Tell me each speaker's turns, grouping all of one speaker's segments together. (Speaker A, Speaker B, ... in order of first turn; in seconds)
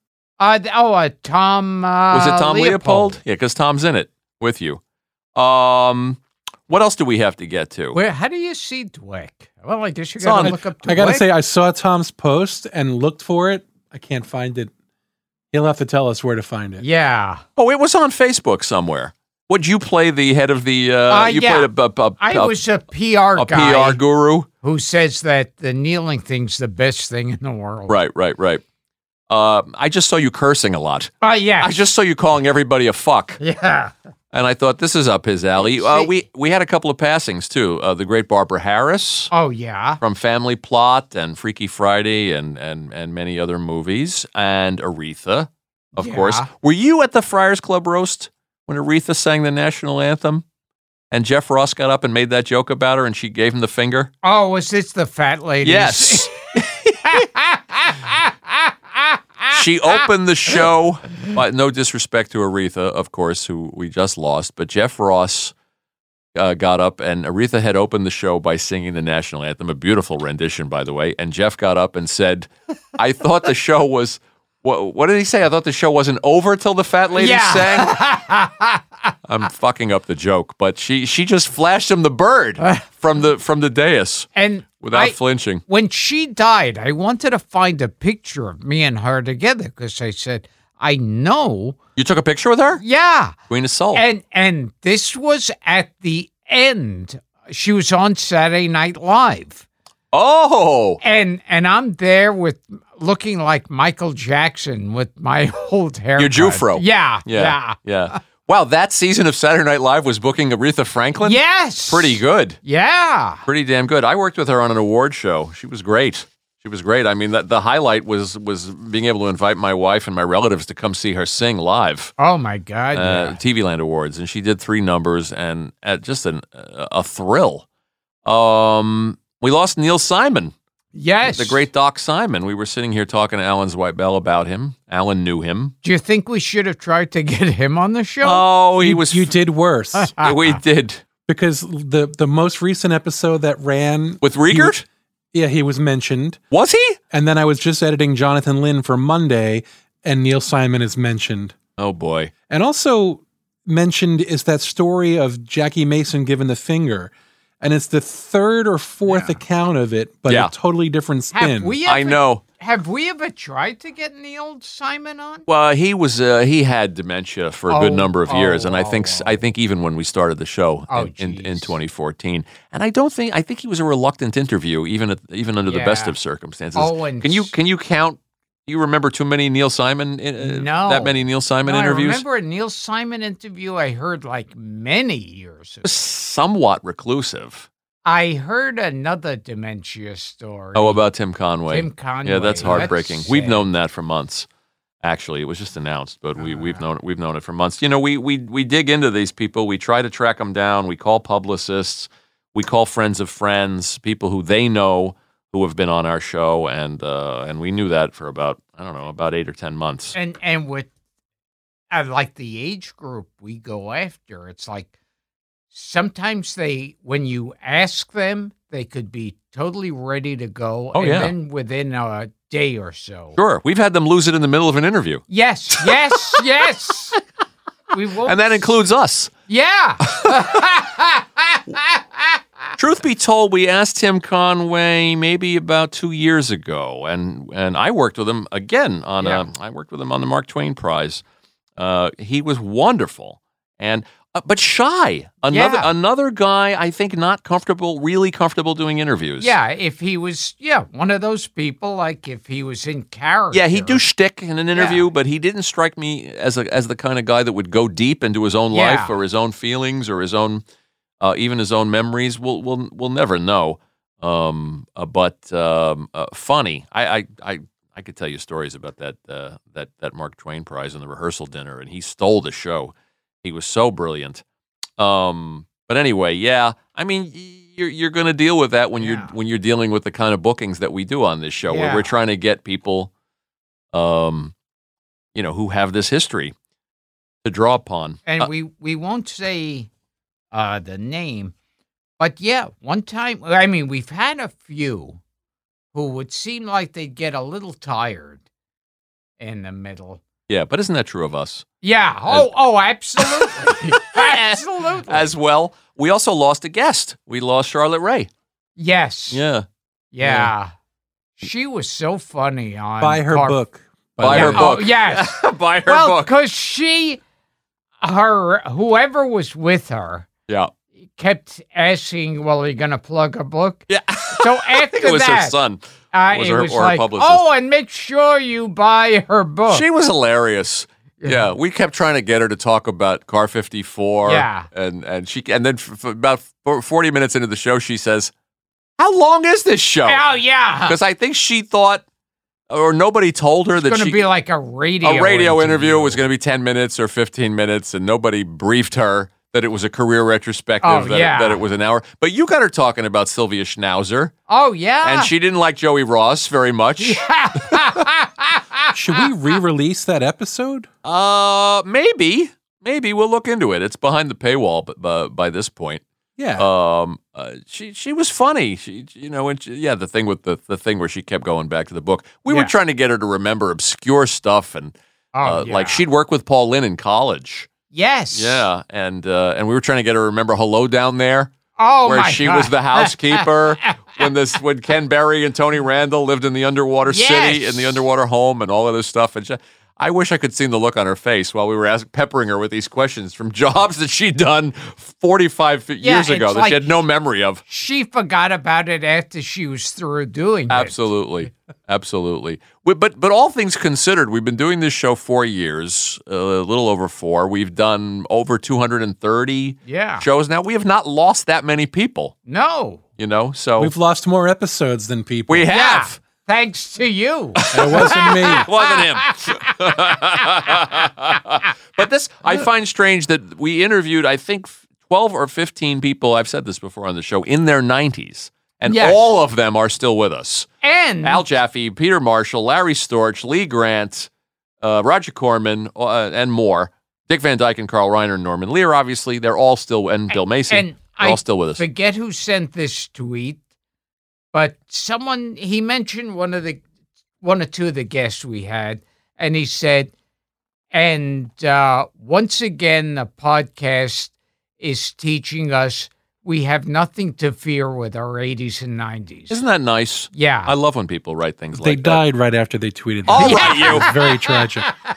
Speaker A: 0.4-3.2, 7.9-11.2, 16.8-17.4, 21.1-24.0, 24.6-27.9, 31.2-31.7, 33.4-33.9, 35.6-36.1, 39.3-40.0, 46.0-46.5, 54.2-56.4, 57.0-59.6, 77.2-78.8, 82.6-82.8, 84.3-85.2, 85.7-91.8, 92.8-93.3, 93.9-99.6, 101.0-108.2, 111.2-113.4, 122.2-123.4, 130.9-131.7, 135.8-138.4, 140.0-140.3, 159.1-159.4, 161.3-165.4, 167.7-169.4, 170.9-171.7, 175.7-176.1, 176.8-177.5, 180.4-185.9, 188.0-191.0, 191.7-193.6, 196.4-196.8, 210.1-210.9, 211.9-214.9, 215.7-223.4, 225.3-227.2, 227.9-228.7, 229.5-232.4, 239.2-239.4, 245.5-245.9, 249.4-254.0, 254.7-255.0, 258.7-259.1, 279.0-279.3, 281.7-282.1, 288.2-289.9, 290.5-291.5, 292.2-295.2, 295.9-298.4, 299.4-300.2, 301.8-305.3, 308.8-309.4, 310.1-310.7, 311.4-313.6, 314.2-317.2, 318.0-320.3, 321.1-325.6, 326.1-329.8, 331.2-331.5, 334.2-334.7, 340.1-341.0, 343.8-346.2, 350.8-351.6, 354.5-355.3, 357.0-359.3, 372.5-372.7, 375.3-376.0, 377.9-378.6, 381.8-384.3, 387.1-388.0, 396.0-397.0, 397.7-401.0, 409.9-410.2, 412.5-413.0, 415.7-420.8, 428.9-429.3, 430.8-431.4, 440.3-443.6, 444.5-446.8, 447.4-450.1, 450.9-459.6, 460.3-460.7, 463.4-464.9
Speaker B: 2.1-4.8, 5.3-8.0, 10.2-10.6, 17.6-22.6, 23.4-24.5, 27.9-28.6, 29.3-33.4, 34.3-39.3, 40.0-50.4, 51.1-54.1, 55.6-57.2, 59.5-65.5, 66.3-77.9, 79.3-84.3, 84.8-85.6, 92.0-92.8, 93.5-94.0, 100.1-101.0, 106.2-112.6, 113.5-122.1, 122.9-127.6, 128.2-130.5, 131.2-135.7, 138.2-139.3, 140.2-141.0, 144.2-144.8, 146.5-147.0, 151.8-152.3, 161.8-162.4, 165.5-182.2, 185.8-187.7, 190.7-194.5, 195.0-210.1, 220.9-221.3, 223.3-225.2, 228.2-229.3, 230.0-230.6, 232.8-241.2, 241.8-249.5, 253.5-260.6, 261.2-274.4, 275.0-283.1, 283.9-284.5, 285.3-286.5, 287.4-288.5, 300.5-301.6, 303.2-308.3, 309.3-309.6, 310.2-310.5, 314.2-316.3, 323.9-327.4, 329.7-338.3, 339.0-340.2, 340.8-342.0, 342.7-344.2, 345.0-354.3, 355.0-358.0, 361.0-366.0, 366.6-377.7, 378.3-381.5, 382.0-397.6, 400.7-412.3, 413.2-413.9, 415.5-416.2, 417.6-430.7, 431.2-434.3, 434.8-441.8, 459.5-462.2, 463.3-464.1
Speaker C: 10.4-14.7, 15.5-16.8, 138.8-140.2, 141.3-144.7, 145.3-146.4, 147.1-151.5, 152.5-161.8, 313.0-314.8, 358.9-360.9, 366.4-366.7, 413.8-415.7, 417.7-418.7, 461.7-464.9